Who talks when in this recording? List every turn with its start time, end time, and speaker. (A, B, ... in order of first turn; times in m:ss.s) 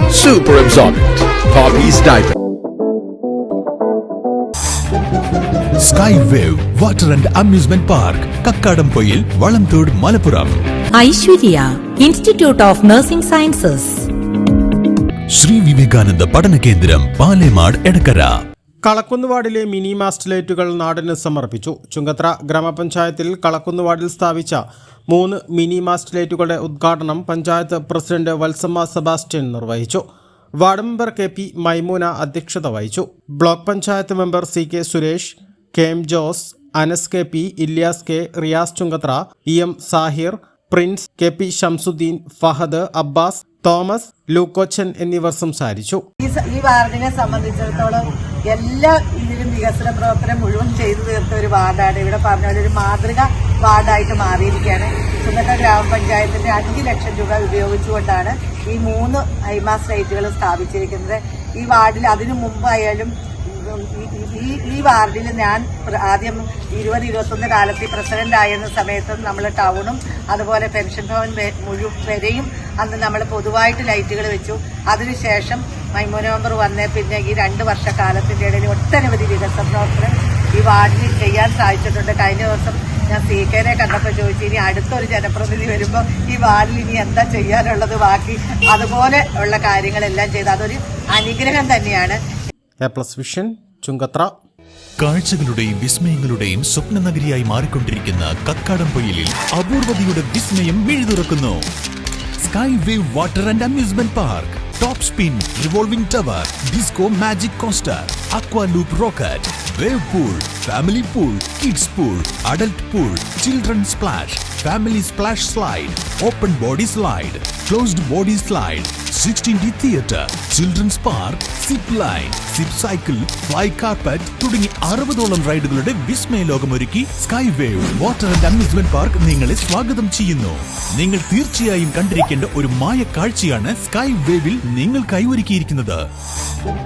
0:00.1-0:02.4 A
0:05.8-0:10.6 B
0:11.0-0:13.8 C
0:15.3-0:18.3 B
0:18.8-0:30.0 D
0:30.6-0:46.0 D
0:46.2-1:32.2 E
1:32.8-1:34.3 D
1:35.0-1:41.6 B
1:42.4-2:16.0 B